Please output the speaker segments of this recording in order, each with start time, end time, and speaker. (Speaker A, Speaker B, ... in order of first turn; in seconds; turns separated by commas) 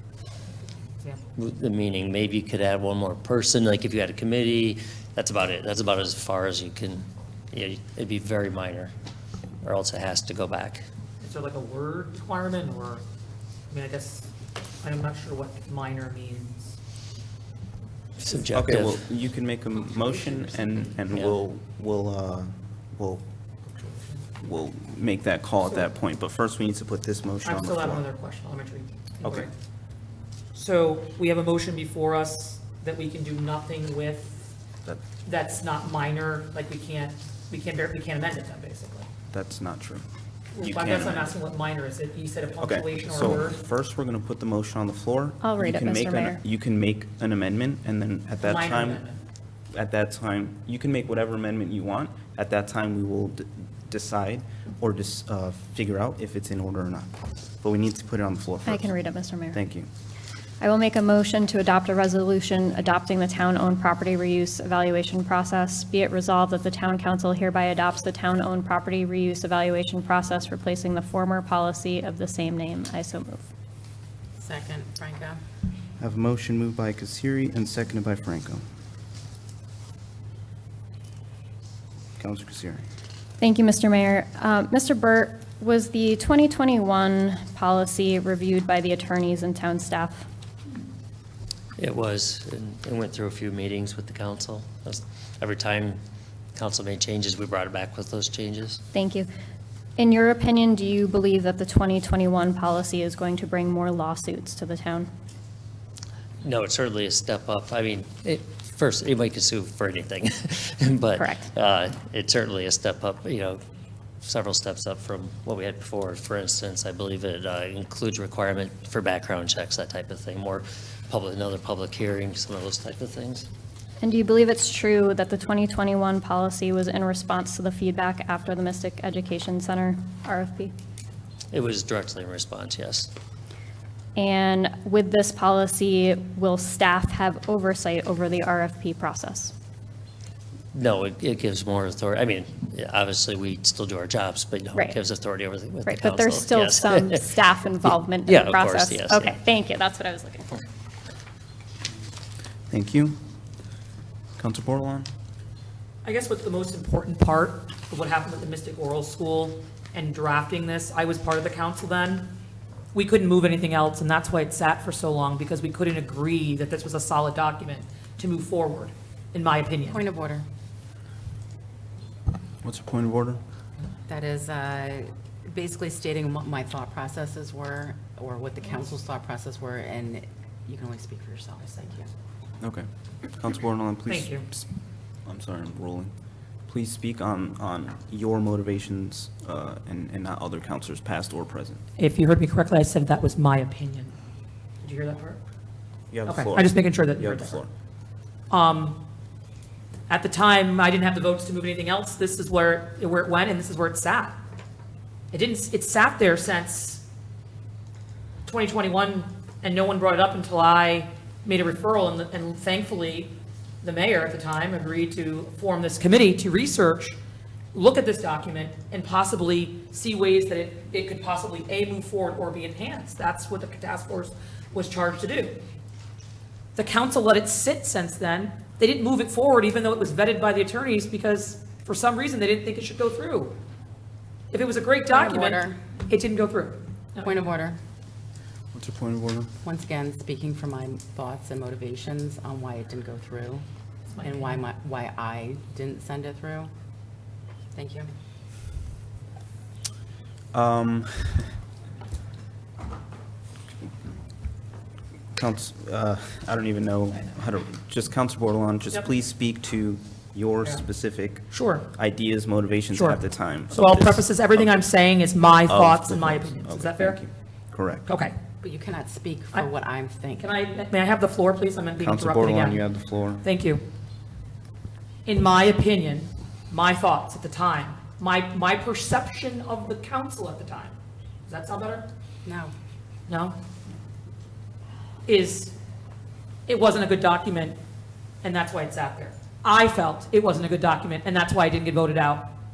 Speaker A: 1.4-8.9, Speaker A: 9.6-10.8, Speaker B: 11.2-13.0, Speaker B: 13.7-14.3, Speaker B: 14.8-16.8, Speaker A: 18.2-19.0, Speaker C: 18.5-23.2, Speaker B: 23.6-24.3, Speaker C: 24.4-28.0, Speaker B: 27.4-29.5, Speaker C: 29.2-29.5, Speaker B: 30.5-34.5, Speaker B: 35.2-39.1, Speaker C: 39.3-40.0, Speaker B: 40.5-43.6, Speaker C: 40.6-41.3, Speaker C: 42.6-49.0, Speaker D: 45.4-46.4, Speaker B: 48.4-49.2, Speaker C: 49.7-58.9, Speaker D: 58.6-59.6, Speaker C: 59.5-59.9, Speaker D: 60.6-73.4, Speaker E: 74.4-75.4, Speaker C: 76.0-78.6, Speaker C: 82.2-82.8, Speaker D: 83.4-90.2, Speaker A: 91.8-96.0, Speaker A: 96.5-98.8, Speaker D: 98.9-99.3, Speaker D: 100.0-105.1, Speaker A: 106.4-113.6, Speaker D: 111.2-111.5, Speaker A: 114.2-123.5, Speaker D: 124.0-130.7, Speaker A: 131.5-133.1, Speaker D: 134.2-139.5, Speaker A: 140.7-149.4, Speaker D: 145.8-150.6, Speaker C: 152.7-153.2, Speaker C: 154.4-155.1, Speaker B: 156.0-162.3, Speaker B: 162.9-170.0, Speaker E: 169.9-170.4, Speaker C: 172.6-173.4, Speaker E: 174.1-182.1, Speaker C: 182.6-184.7, Speaker B: 184.1-184.4, Speaker C: 185.2-186.1, Speaker C: 186.7-191.8, Speaker B: 192.0-194.1, Speaker B: 194.8-195.4, Speaker C: 196.1-197.7, Speaker B: 196.3-197.6, Speaker B: 198.5-199.0, Speaker B: 200.1-204.3, Speaker B: 205.3-207.0, Speaker B: 208.4-217.2, Speaker B: 217.7-225.6, Speaker B: 226.7-233.5, Speaker B: 234.5-237.4, Speaker E: 235.1-235.8, Speaker E: 237.2-237.8, Speaker C: 238.7-239.5, Speaker E: 239.6-243.6, Speaker B: 244.1-244.6, Speaker E: 244.2-246.7, Speaker E: 247.7-248.1, Speaker C: 250.5-251.5, Speaker C: 255.3-264.8, Speaker B: 261.5-261.9, Speaker B: 262.9-267.2, Speaker C: 265.7-268.1, Speaker B: 268.1-268.3, Speaker E: 268.6-270.5, Speaker B: 270.4-272.8, Speaker C: 272.0-273.4, Speaker B: 273.4-273.8, Speaker B: 275.2-280.9, Speaker B: 281.5-282.1, Speaker E: 282.4-282.7, Speaker B: 283.3-283.5, Speaker B: 285.2-285.7, Speaker B: 286.7-287.8, Speaker B: 288.4-292.5